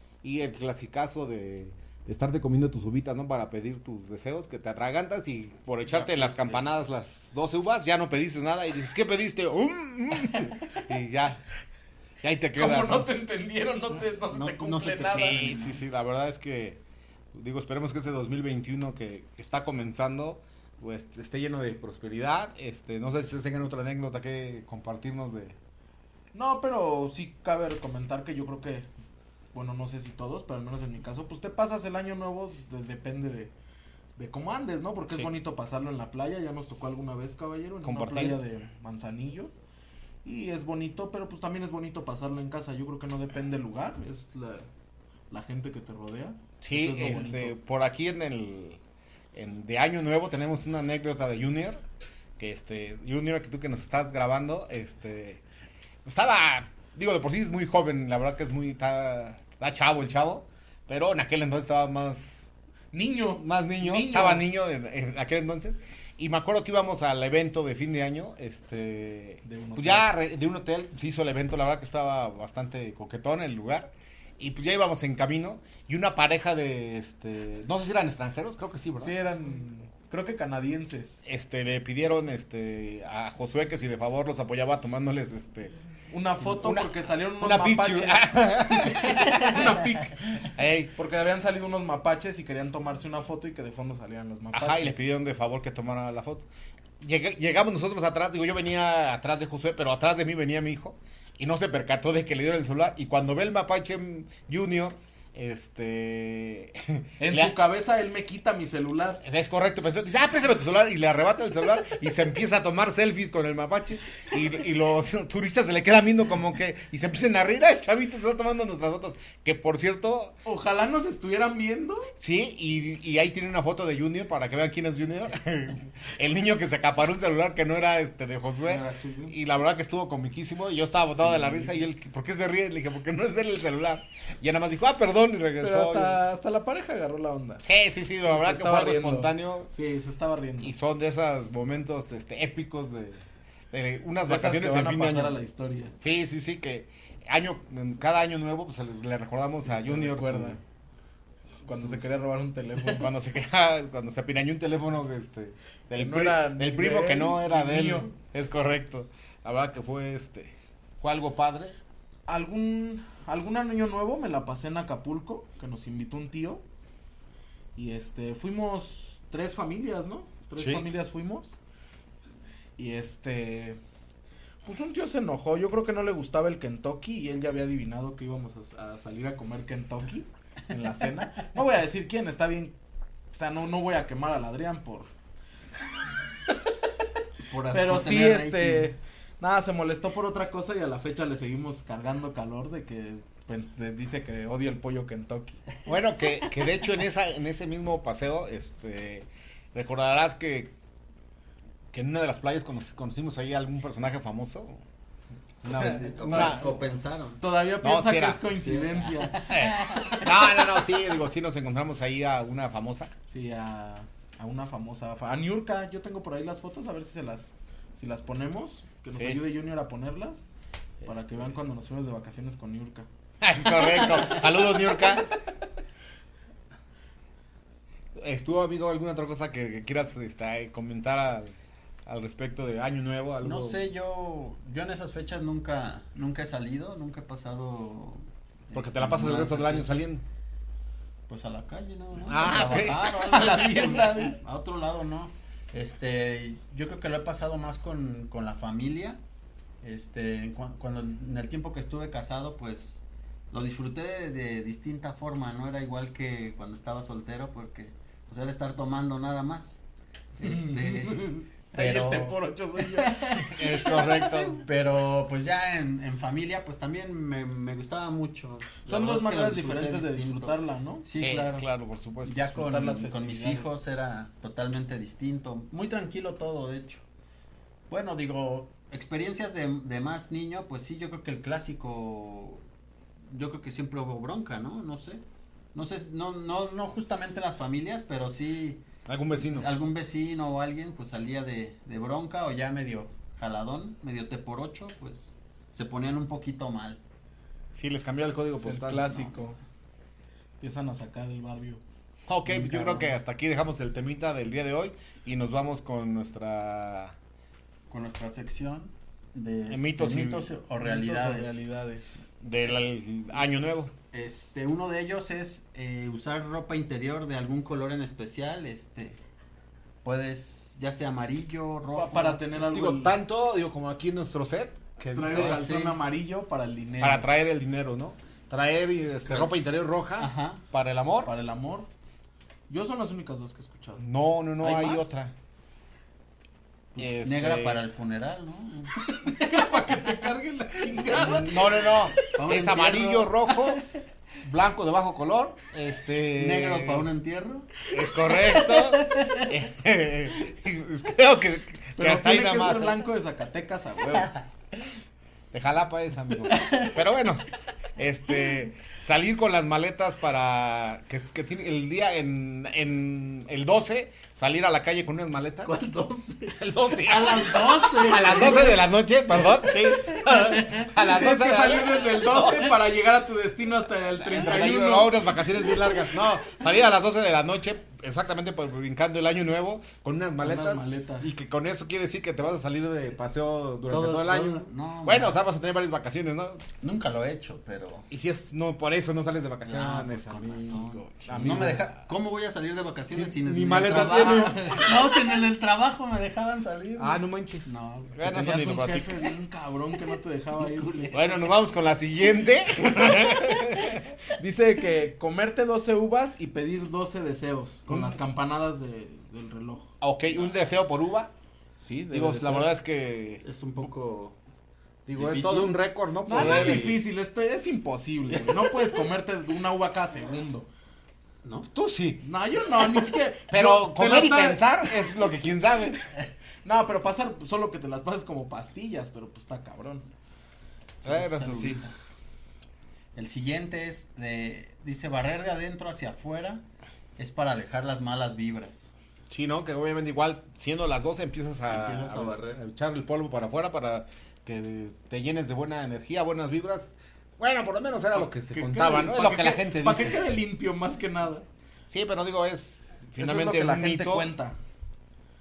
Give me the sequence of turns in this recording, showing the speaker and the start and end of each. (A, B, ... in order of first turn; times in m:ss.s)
0:00.2-0:11.4 A
0:05.9-0:06.6 B
0:12.2-0:13.1 A
0:12.6-0:15.6 C
0:14.3-0:15.8 B
0:15.0-0:16.8 A
0:17.3-0:25.6 A
0:26.3-0:28.9 C
0:29.5-0:33.5 C
0:34.2-0:39.5 C
0:37.8-0:38.4 A
0:40.2-0:44.7 C
0:45.3-0:47.6 C
0:46.6-0:48.8 A
0:49.3-0:51.8 A
0:52.4-0:55.4 A
0:56.0-1:02.5 A
1:02.9-1:04.4 C
1:03.4-1:19.2 A
1:09.4-1:10.0 C
1:19.0-1:21.2 C
1:21.2-1:25.7 A
1:26.1-1:35.0 C
1:26.4-1:29.7 A
1:30.5-1:30.9 A
1:34.5-1:36.5 A
1:37.0-1:47.6 A
1:47.2-1:49.2 C
1:49.2-2:00.3 A
2:00.4-2:02.1 C
2:02.2-2:16.2 A
2:08.6-2:09.4 B
2:11.1-2:11.9 C
2:15.6-2:17.6 C
2:17.6-2:19.7 A
2:18.2-2:20.7 C
2:20.6-2:25.4 A
2:24.2-2:25.9 C
2:26.0-2:30.6 A
2:29.5-2:30.6 C
2:31.6-2:33.1 C
2:31.7-2:32.0 A
2:32.8-2:41.8 A
2:35.9-2:38.1 C
2:42.3-2:46.6 C
2:47.7-2:51.6 C
2:50.6-2:50.9 A
2:52.8-2:53.8 C
2:54.6-3:02.7 C
3:03.3-3:05.1 C
3:07.5-3:08.9 B
3:07.7-3:15.6 C
3:15.8-3:20.7 A
3:21.9-3:24.8 A
3:25.6-3:26.7 A
3:25.7-3:27.4 B
3:26.1-3:26.7 C
3:27.4-3:29.4 C
3:27.8-3:28.4 A
3:28.6-3:30.6 B
3:29.5-3:33.1 A
3:33.3-3:40.4 C
3:39.1-3:39.4 A
3:41.0-3:41.5 A
3:41.0-3:43.1 C
3:43.4-3:45.3 A
3:48.2-3:51.5 A
3:52.0-3:53.8 A
3:53.4-4:00.0 B
3:58.7-4:00.2 A
4:01.3-4:09.2 B
4:02.2-4:03.8 A
4:03.3-4:04.4 C
4:09.8-4:13.0 B
4:13.5-4:19.8 B
4:20.4-4:23.9 B
4:20.4-4:24.3 C
4:23.5-4:24.6 A
4:24.6-4:31.6 B
4:28.8-4:31.0 C
4:31.1-4:33.1 A
4:32.2-4:37.0 B
4:32.6-4:33.7 C
4:37.9-4:42.6 B
4:43.3-4:45.2 B
4:45.7-4:48.8 B
4:49.0-4:49.7 A
4:49.4-4:57.0 B
4:57.7-4:59.2 A
4:58.6-4:59.6 C
4:59.1-4:59.4 B
5:00.6-5:01.8 C
5:02.3-5:07.1 A
5:02.6-5:03.0 B
5:07.9-5:11.6 B
5:09.7-5:10.5 A
5:10.8-5:12.3 C
5:12.4-5:13.9 A
5:14.1-5:19.2 B
5:20.0-5:22.4 B
5:21.9-5:23.2 C
5:22.6-5:25.6 A
5:25.1-5:27.3 C
5:25.2-5:26.0 B
5:27.0-5:31.3 A
5:29.3-5:29.5 C
5:30.2-5:30.6 B
5:31.2-5:31.9 C
5:32.7-5:34.0 C
5:34.0-5:35.3 A
5:34.6-5:35.1 C
5:36.9-5:38.9 B
5:37.0-5:37.8 A
5:39.0-5:42.2 C
5:41.1-5:43.8 A
5:42.3-5:43.5 B
5:44.4-5:47.1 A
5:46.4-5:47.7 B
5:47.9-5:53.0 A
5:48.5-5:49.4 B
5:52.0-5:54.4 C
5:55.5-5:57.4 A
5:56.5-5:56.8 B
5:58.0-6:05.7 A
6:05.6-6:08.8 B
6:06.5-6:12.7 A
6:09.4-6:10.8 B
6:11.0-6:15.1 C
6:14.2-6:26.6 A
6:20.4-6:21.3 C
6:23.9-6:25.4 B
6:26.8-6:28.1 B
6:28.1-6:31.9 A
6:29.6-6:38.2 B
6:31.2-6:31.9 C
6:33.1-6:34.8 A
6:33.9-6:34.9 C
6:37.0-6:39.3 A
6:38.2-6:41.3 C
6:40.6-6:41.2 B
6:41.1-6:44.0 A
6:44.3-6:49.9 C
6:47.9-6:48.2 A
6:50.0-6:51.3 A
6:51.8-6:52.7 C
6:52.1-6:53.9 A
6:53.4-6:54.4 B
6:55.0-6:57.0 A
6:55.1-6:55.7 B
6:56.2-7:00.7 C
6:56.3-6:56.8 B
7:01.4-7:01.7 B
7:01.7-7:02.2 A
7:02.2-7:04.9 C
7:03.5-7:06.0 A
7:06.6-7:10.0 C
7:11.0-7:12.2 B
7:11.0-7:11.8 A
7:13.1-7:16.6 B
7:17.2-7:18.9 B
7:19.3-7:30.3 A
7:21.7-7:22.6 B
7:28.1-7:31.4 C
7:31.9-7:34.3 A
7:33.2-7:34.6 C